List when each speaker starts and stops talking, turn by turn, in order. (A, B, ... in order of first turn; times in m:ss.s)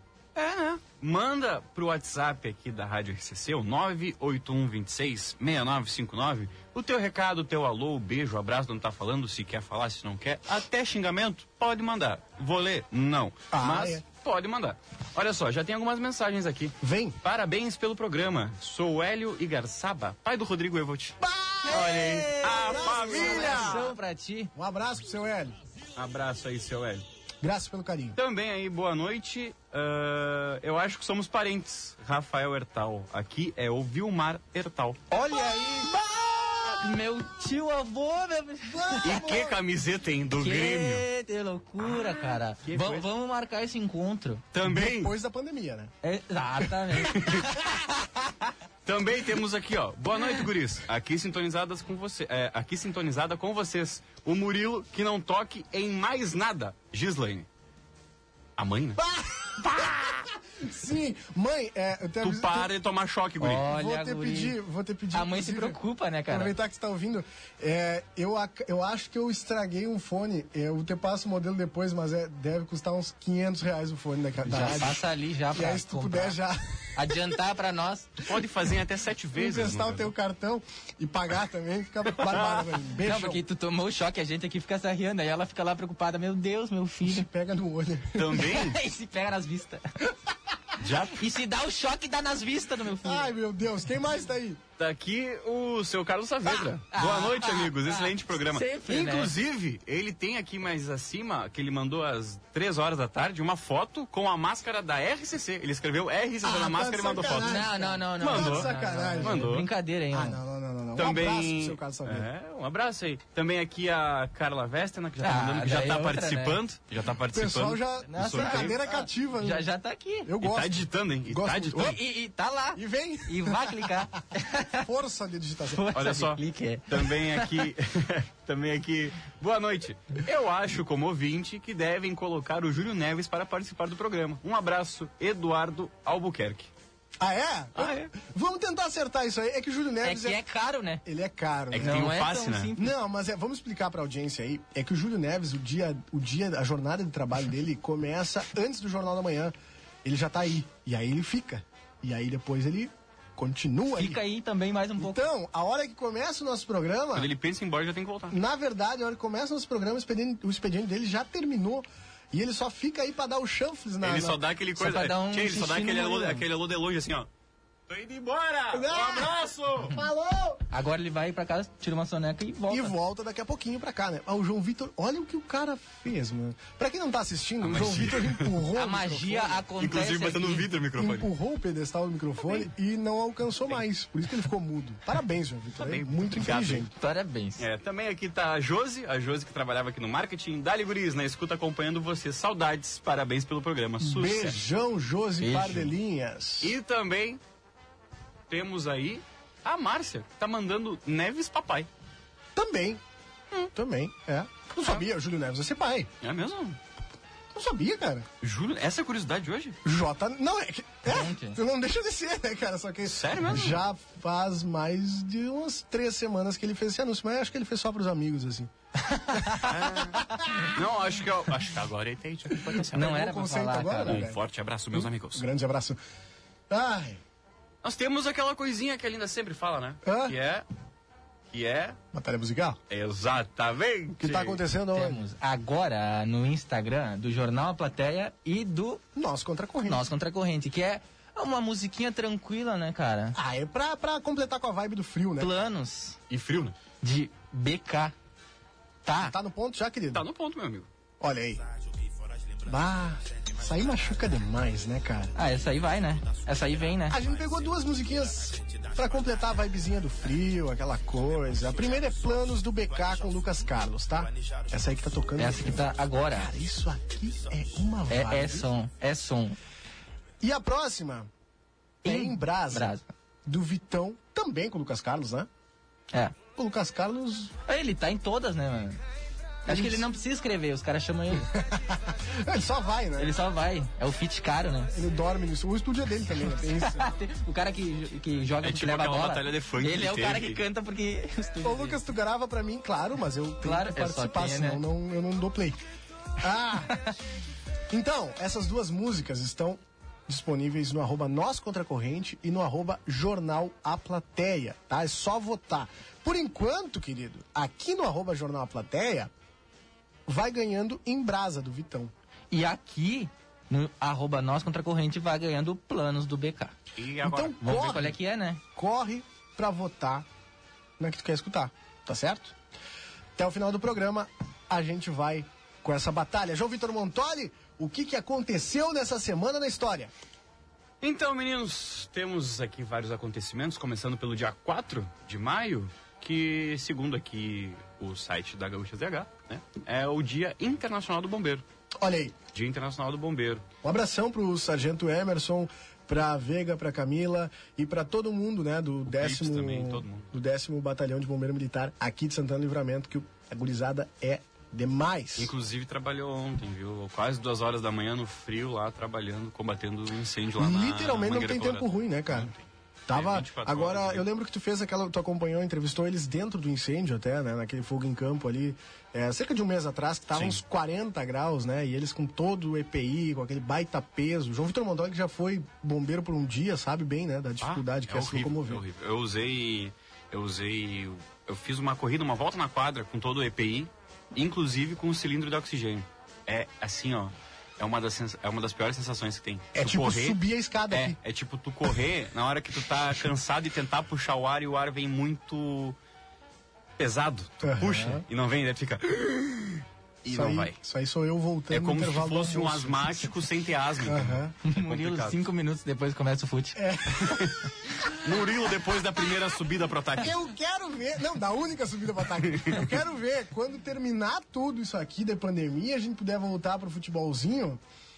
0:00.3-0:21.2 A
0:13.5-0:14.0 B
0:16.8-0:17.2 B
0:21.2-0:23.9 B
0:21.6-0:24.5 C
0:21.7-0:23.9 A
0:24.5-0:25.6 B
0:26.0-0:27.0 A
0:27.4-0:28.2 B
0:28.2-0:35.0 A
0:35.1-0:35.9 C
0:35.3-0:36.9 B
0:36.8-0:39.3 C
0:38.6-0:39.6 B
0:39.0-0:41.0 A
0:40.4-0:44.4 C
0:42.6-0:43.0 A
0:44.5-0:45.1 A
0:44.6-0:45.9 B
0:46.0-0:48.5 C
0:47.0-0:47.6 A
0:48.8-0:57.5 A
0:58.6-0:59.0 A
0:59.0-1:02.7 B
1:02.2-1:03.7 A
1:03.4-1:04.6 C
1:03.4-1:17.4 B
1:05.1-1:06.5 C
1:14.4-1:16.4 C
1:17.0-1:18.1 C
1:18.2-1:20.1 A
1:19.3-1:23.4 B
1:22.2-1:22.7 A
1:23.0-1:27.3 C
1:27.0-1:28.4 B
1:28.2-1:28.8 A
1:28.4-1:29.8 C
1:30.8-1:31.2 A
1:31.1-1:33.3 C
1:33.0-1:34.6 B
1:34.8-1:47.6 A
1:36.9-1:39.3 C
1:46.4-1:49.4 B
1:47.4-1:50.4 C
1:48.2-1:49.7 A
1:50.1-1:52.3 B
1:51.0-1:58.8 A
1:55.2-1:56.6 C
1:57.3-1:59.7 B
1:58.1-2:00.3 C
2:00.2-2:02.0 B
2:00.4-2:02.0 A
2:01.7-2:04.9 C
2:02.7-2:04.0 B
2:04.8-2:05.8 B
2:05.7-2:07.7 C
2:05.9-2:16.7 A
2:17.2-2:20.4 B
2:17.8-2:18.1 A
2:20.0-2:21.0 C
2:21.0-2:22.1 B
2:21.7-2:22.7 A
2:21.8-2:22.9 C
2:22.7-2:34.2 B
2:33.9-2:35.2 C
2:35.0-2:37.3 B
2:37.1-2:38.4 A
2:38.3-2:44.4 B
2:44.0-2:47.3 A
2:44.8-2:46.4 C
2:47.9-2:50.0 A
2:48.7-2:50.6 B
2:50.7-2:52.9 C
2:52.7-2:59.6 B
2:57.6-2:58.6 A
2:58.7-3:00.7 C
2:59.8-3:01.3 A
3:01.0-3:06.9 B
3:05.8-3:06.9 A
3:07.0-3:07.6 C
3:07.6-3:14.6 A
3:14.0-3:16.7 B
3:15.4-3:15.9 C
3:16.6-3:17.4 A
3:18.5-3:21.9 A
3:22.6-3:23.0 B
3:23.7-3:26.1 B
3:26.2-3:26.8 A
3:27.5-3:28.3 B
3:28.4-3:29.8 A
3:29.8-3:38.7 B
3:31.0-3:31.6 C
3:33.0-3:33.8 A
3:39.1-3:39.6 C
3:39.3-3:40.8 B
3:39.6-3:43.2 A
3:42.6-3:44.4 B
3:42.9-3:44.2 C
3:44.0-3:45.4 A
3:44.9-3:46.0 B
3:46.7-3:47.2 B
3:47.8-3:50.6 A
3:50.0-3:50.4 B
3:51.5-3:52.0 A
3:52.1-3:52.8 B
3:52.9-3:54.6 A
3:54.2-3:55.2 B
3:54.9-3:59.0 C
3:59.1-4:00.1 B
3:59.8-4:03.4 C
4:03.3-4:05.6 B
4:05.4-4:06.2 C
4:06.3-4:06.7 A
4:07.0-4:08.1 C
4:09.0-4:09.3 C
4:09.2-4:10.2 B
4:10.1-4:10.9 A
4:11.2-4:11.6 B
4:12.6-4:15.3 B
4:15.3-4:17.2 C
4:17.0-4:28.7 B
4:25.4-4:26.5 C
4:28.1-4:29.6 C
4:30.4-4:31.3 B
4:32.0-4:33.0 C
4:32.0-4:35.5 B
4:36.6-4:37.5 B
4:37.6-4:39.0 C
4:39.6-4:40.1 B
4:39.6-4:41.5 C
4:41.5-4:43.3 B
4:43.2-4:45.0 C
4:44.9-4:47.1 B
4:46.8-4:52.0 C
4:48.6-4:50.6 A
4:51.6-4:55.8 B
4:53.6-4:54.8 C
4:56.4-4:57.0 B
4:57.9-5:09.3 B
5:10.3-5:12.1 B
5:12.5-5:16.7 C
5:17.0-5:17.6 A
5:17.2-5:18.2 B
5:17.6-5:18.6 C
5:18.7-5:20.2 B
5:21.0-5:22.5 B
5:23.4-5:30.1 B
5:31.0-5:41.6 A
5:42.0-5:42.4 B
5:42.5-5:43.6 A
5:43.8-5:55.5 B
5:49.0-5:50.3 A
5:55.4-6:04.2 A
6:00.6-6:02.5 B
6:03.1-6:18.8 B
6:10.3-6:10.6 A
6:17.6-6:36.0 A
6:29.7-6:31.2 B
6:37.0-6:40.8 A
6:37.6-6:38.2 B
6:40.3-6:43.3 B
6:41.7-6:45.4 A
6:44.0-6:44.5 B
6:44.6-6:46.8 C
6:46.8-6:47.6 B
6:47.2-6:47.6 A
6:48.1-6:50.4 A
6:50.2-6:57.8 B
6:52.4-6:52.8 A